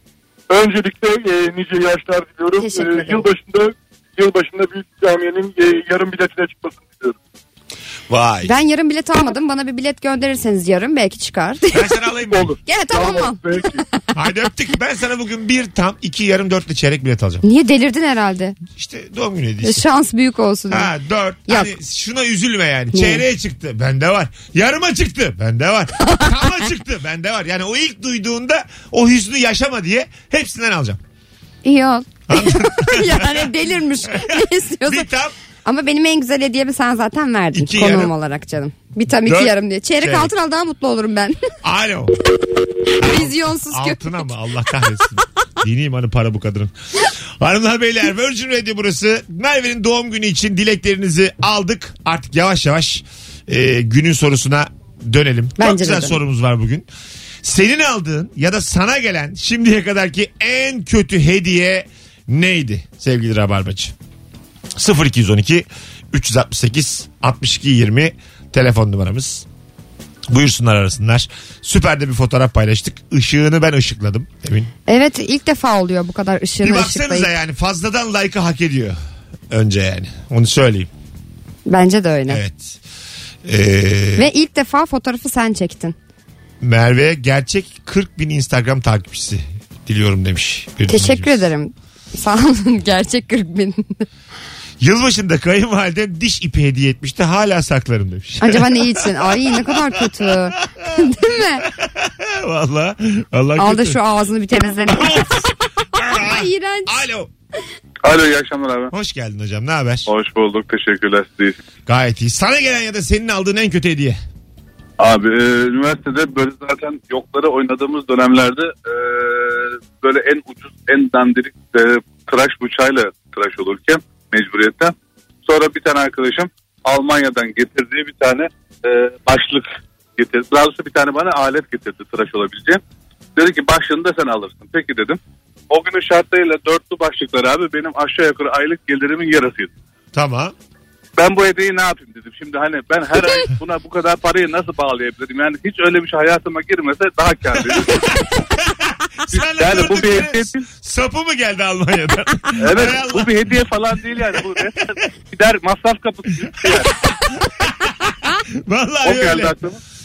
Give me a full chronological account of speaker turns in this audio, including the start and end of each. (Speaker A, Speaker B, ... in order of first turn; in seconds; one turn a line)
Speaker A: 0.5-7.1
Speaker B: 2.6-3.3
Speaker C: 8.1-8.5
Speaker B: 8.4-11.9
Speaker C: 11.7-12.6
Speaker B: 12.6-13.7
Speaker A: 12.9-13.6
Speaker C: 14.1-17.4
Speaker B: 17.4-18.6
Speaker C: 18.7-19.8
Speaker B: 19.6-20.9
Speaker C: 20.7-31.0
Speaker B: 22.9-23.2
Speaker B: 26.0-26.7
Speaker B: 31.6-35.1
Speaker C: 32.3-35.3
Speaker B: 35.6-41.4
Speaker C: 37.5-38.1
Speaker C: 39.2-40.3
Speaker C: 41.6-42.1
Speaker C: 43.0-46.7
Speaker B: 43.0-44.3
Speaker C: 47.4-56.9
Speaker B: 55.6-56.2
Speaker C: 57.4-63.9
Speaker C: 64.7-69.5
Speaker C: 70.3-74.7
Speaker B: 74.9-77.3
Speaker C: 76.6-79.0
Speaker C: 79.5-80.9
Speaker B: 81.7-82.4
Speaker C: 82.3-82.8
Speaker C: 83.4-84.3
Speaker B: 84.2-86.0
Speaker C: 86.6-91.4
Speaker B: 90.9-94.0
Speaker C: 94.8-104.0
Speaker B: 98.4-101.6
Speaker B: 103.6-106.9
Speaker C: 104.9-107.3
Speaker D: 108.0-108.9
Speaker C: 108.9-110.1
Speaker D: 110.1-111.5
Speaker C: 111.9-114.2
Speaker D: 115.0-124.9
Speaker D: 125.5-132.8
Speaker D: 133.3-135.2
Speaker D: 135.7-139.7
Speaker C: 140.1-140.5
Speaker D: 141.2-148.0
Speaker C: 147.5-153.6
Speaker D: 149.3-150.6
Speaker D: 152.6-157.0
Speaker C: 156.8-159.6
Speaker D: 159.0-159.8